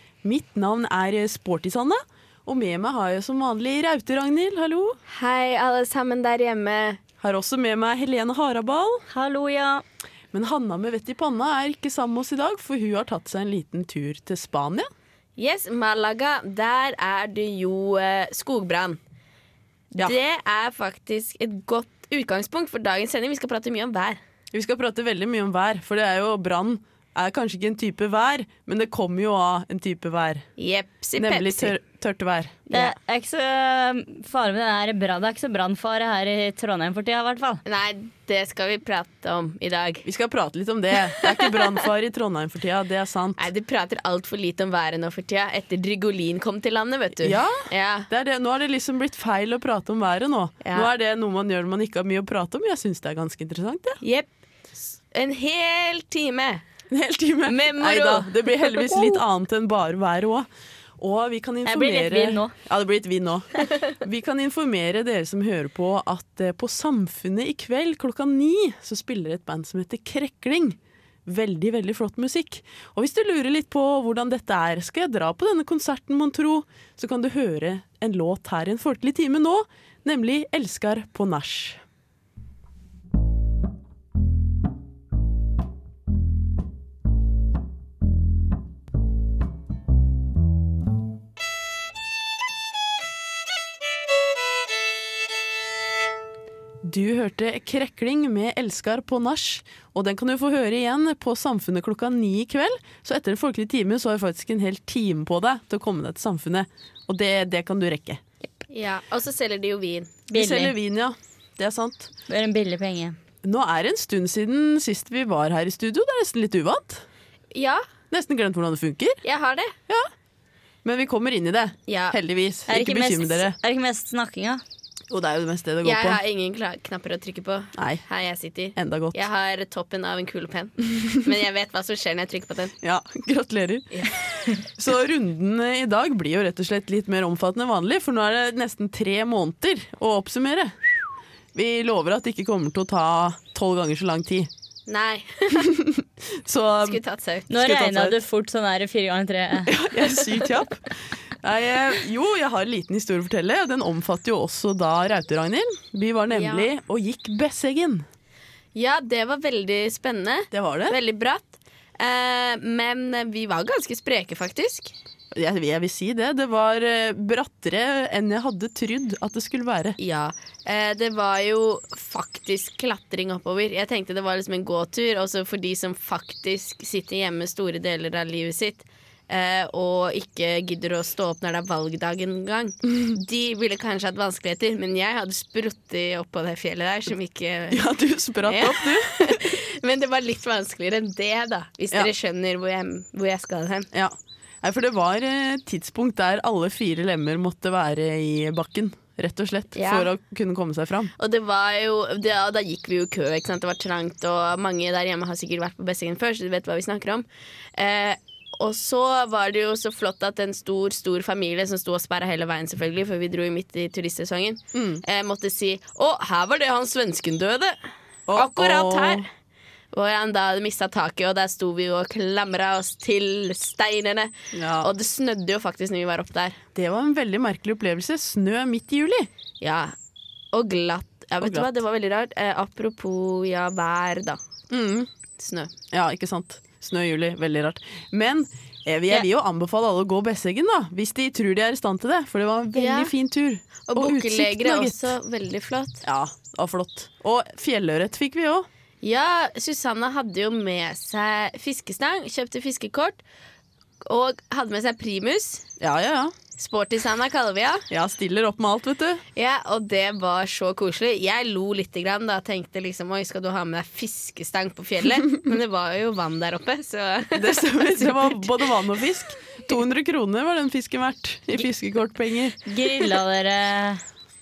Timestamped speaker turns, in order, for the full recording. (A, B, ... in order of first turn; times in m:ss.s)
0:00.2-0:05.0 A
0:05.1-0:07.0 B
0:07.2-0:09.1 A
0:09.1-0:09.8 C
0:10.3-0:14.9 A
0:15.4-0:19.0 B
0:19.9-0:24.2 B
0:24.5-0:30.5 A
0:30.6-0:31.8 B
0:31.2-0:32.6 A
0:32.7-0:37.6 C
0:37.7-0:40.1 B
0:40.0-0:43.4 A
0:41.2-0:41.9 B
0:43.4-0:48.1 B
0:47.2-0:54.0 A
0:50.6-0:50.9 B
0:54.0-0:54.3 B
0:54.8-0:56.6 B
0:56.9-1:00.5 A
0:57.4-0:59.2 B
1:01.0-1:21.8 A
1:01.6-1:02.5 C
1:36.8-1:48.2 A
1:48.7-1:50.2 B
1:50.3-1:50.7 C
1:50.3-1:52.1 A
1:52.3-1:53.2 C
1:53.4-1:57.0 A
1:57.5-1:57.8 B
1:58.1-1:59.2 A
1:59.2-1:59.8 B
2:00.8-2:03.6 A
2:01.9-2:02.2 B
2:02.7-2:04.6 C
2:05.1-2:06.2 A
2:05.8-2:12.8 B
2:07.8-2:08.0 A
2:08.8-2:09.2 A
2:12.8-2:21.0 A
2:21.5-2:24.5 A
2:24.9-2:25.8 B
2:25.5-2:28.2 A
2:26.8-2:27.5 B
2:27.5-2:29.8 C
2:29.7-2:38.1 A
2:36.3-2:36.7 B
2:38.8-2:44.9 B
2:40.5-2:41.0 A
2:45.3-2:50.0 A
2:50.0-3:07.8 B
3:07.7-3:09.5 A
3:08.4-3:13.9 B
3:13.9-3:21.1 A
3:19.8-3:20.1 B
3:21.2-3:37.8 B
3:34.7-3:35.0 A
3:38.3-3:39.3 A
3:38.4-3:39.3 B
3:39.9-3:46.6 B
3:44.5-3:44.9 A
3:46.8-3:49.3 A
3:49.6-3:49.9 B
3:50.5-3:54.4 B
3:51.4-3:51.8 A
3:54.7-3:55.1 A
3:55.4-3:55.8 B
3:55.9-4:05.1 A
4:02.8-4:03.1 B
4:03.9-4:06.0 B
4:06.0-4:08.7 A
4:09.0-4:13.2 B
4:14.0-4:15.7 B
4:15.8-4:16.4 A
4:16.6-4:17.9 B
4:17.9-4:19.2 A
4:19.4-4:28.4 B
4:27.3-4:32.6 A
4:32.7-4:34.0 C